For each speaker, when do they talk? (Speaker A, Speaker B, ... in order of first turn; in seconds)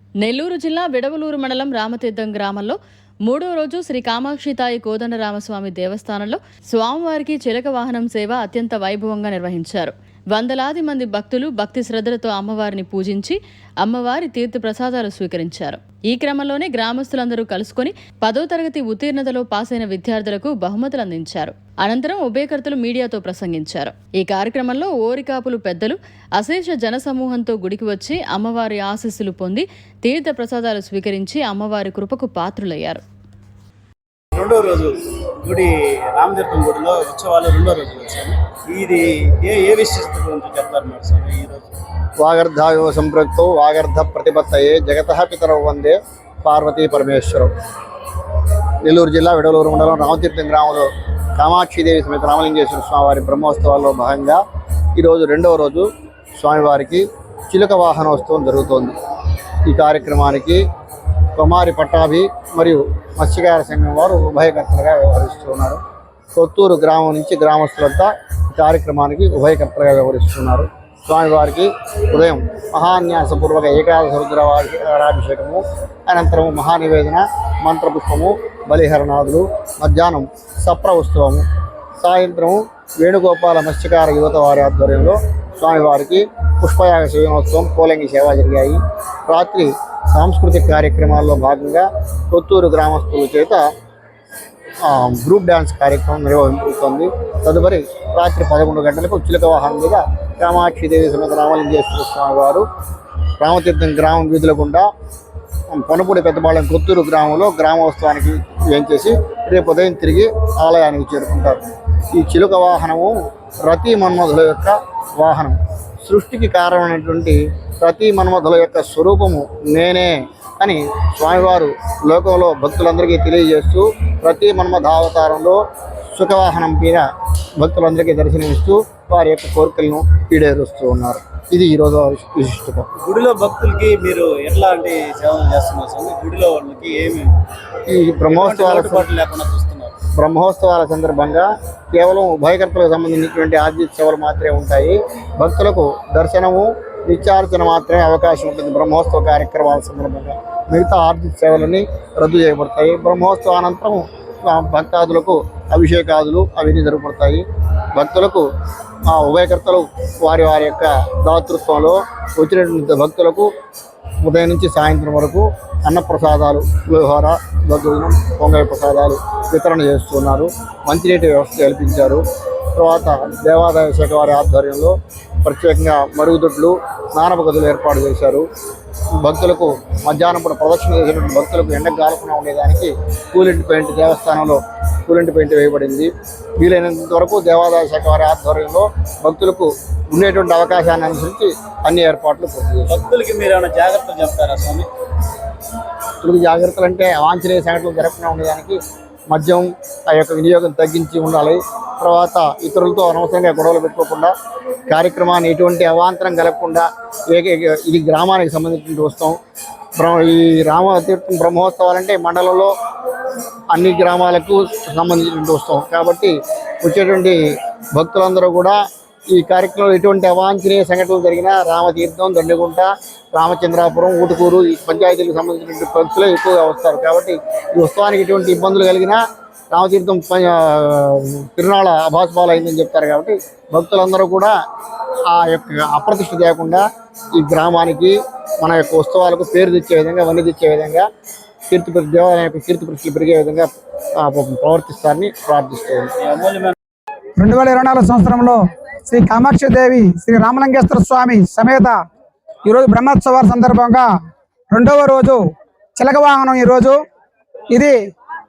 Speaker A: 0.2-33.0
Speaker B: 34.3-41.7, 133.0-137.3, 138.3-140.0, 192.9-194.9, 246.2-246.7
Speaker C: 42.2-47.5, 48.8-54.4, 55.0-59.0, 59.6-60.6, 61.3-65.8, 66.3-81.5, 82.0-93.6, 94.8-102.7, 103.4-104.9, 105.7-127.1, 127.6-132.9, 137.9-139.1, 140.1-157.4, 157.9-158.4, 159.0-163.5, 164.2-178.4, 179.2-193.0, 196.2-198.8, 199.3-204.3, 204.9-209.4, 210.0-212.7, 213.7-217.4, 217.9-218.8, 219.3-234.5, 235.3-236.8, 237.3-241.1, 241.7-246.1
Speaker D: 247.4-252.0, 252.6-254.0, 254.7-255.4, 256.0-257.0, 257.7-258.0